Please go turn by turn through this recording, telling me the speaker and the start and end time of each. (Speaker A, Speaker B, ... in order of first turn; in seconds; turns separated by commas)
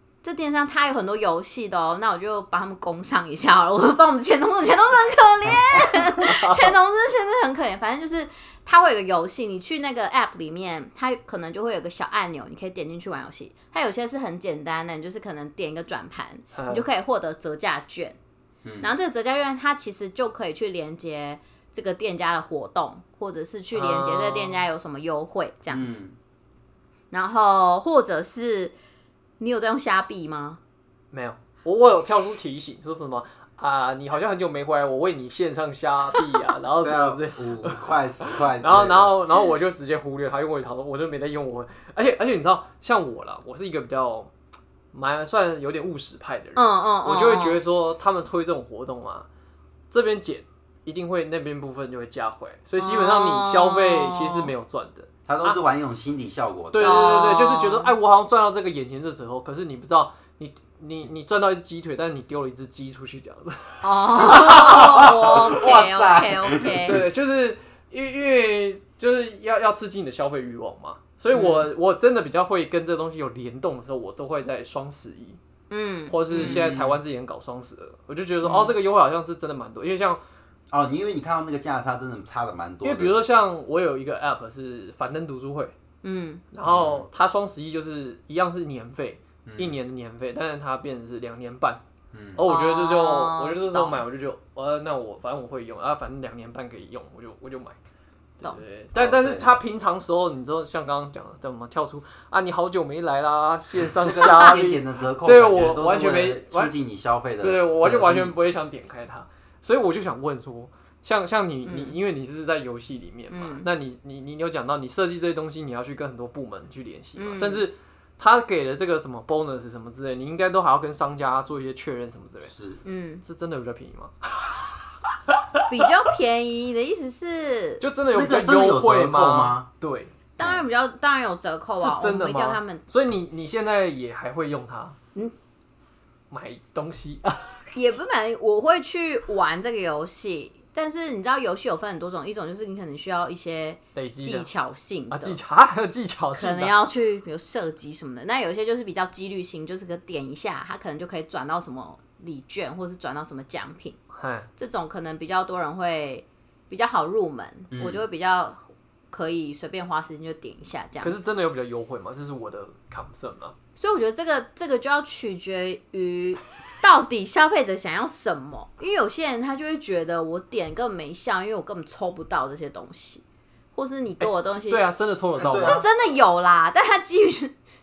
Speaker A: 0.2-18.2, Speaker B: 6.1-6.7, Speaker B: 16.5-16.8, Speaker C: 18.6-18.9, Speaker A: 18.8-26.0, Speaker B: 23.7-24.6, Speaker C: 25.7-26.1, Speaker A: 27.1-28.7, Speaker A: 29.4-30.6, Speaker B: 31.1-44.3, Speaker C: 36.8-39.1, Speaker B: 44.9-49.3, Speaker A: 46.5-47.6, Speaker B: 49.9-55.6, Speaker A: 52.8-54.5, Speaker C: 55.3-57.3, Speaker B: 56.7-65.3, Speaker A: 56.8-57.9, Speaker A: 63.8-67.0, Speaker C: 64.2-67.0, Speaker B: 66.7-75.4, Speaker A: 71.3-71.7, Speaker A: 75.7-76.7, Speaker B: 76.1-80.2, Speaker C: 76.4-77.0, Speaker A: 78.4-78.7, Speaker C: 80.7-83.2, Speaker B: 82.8-85.7, Speaker A: 86.0-86.4, Speaker B: 86.5-91.8, Speaker C: 86.7-87.1, Speaker C: 89.4-89.8, Speaker C: 92.1-92.5, Speaker B: 92.3-97.8, Speaker A: 92.5-94.0, Speaker B: 98.4-106.7, Speaker C: 99.0-99.5, Speaker C: 104.0-108.3, Speaker B: 107.4-122.5, Speaker A: 111.6-111.9, Speaker A: 113.3-113.7, Speaker A: 117.2-117.7, Speaker C: 122.5-122.8, Speaker A: 122.8-123.2, Speaker B: 123.2-125.6, Speaker A: 125.7-127.8, Speaker B: 127.8-130.1, Speaker C: 128.1-129.7, Speaker A: 130.4-132.8, Speaker B: 131.8-135.0, Speaker B: 136.3-137.6, Speaker A: 137.7-145.4, Speaker B: 143.9-144.5, Speaker B: 145.1-146.7, Speaker A: 146.3-154.0, Speaker B: 154.2-154.5, Speaker A: 154.6-161.2, Speaker C: 157.7-158.0, Speaker B: 161.0-163.5, Speaker A: 163.8-173.2, Speaker A: 173.7-174.8, Speaker B: 174.2-175.8, Speaker C: 175.4-175.8, Speaker A: 175.6-177.5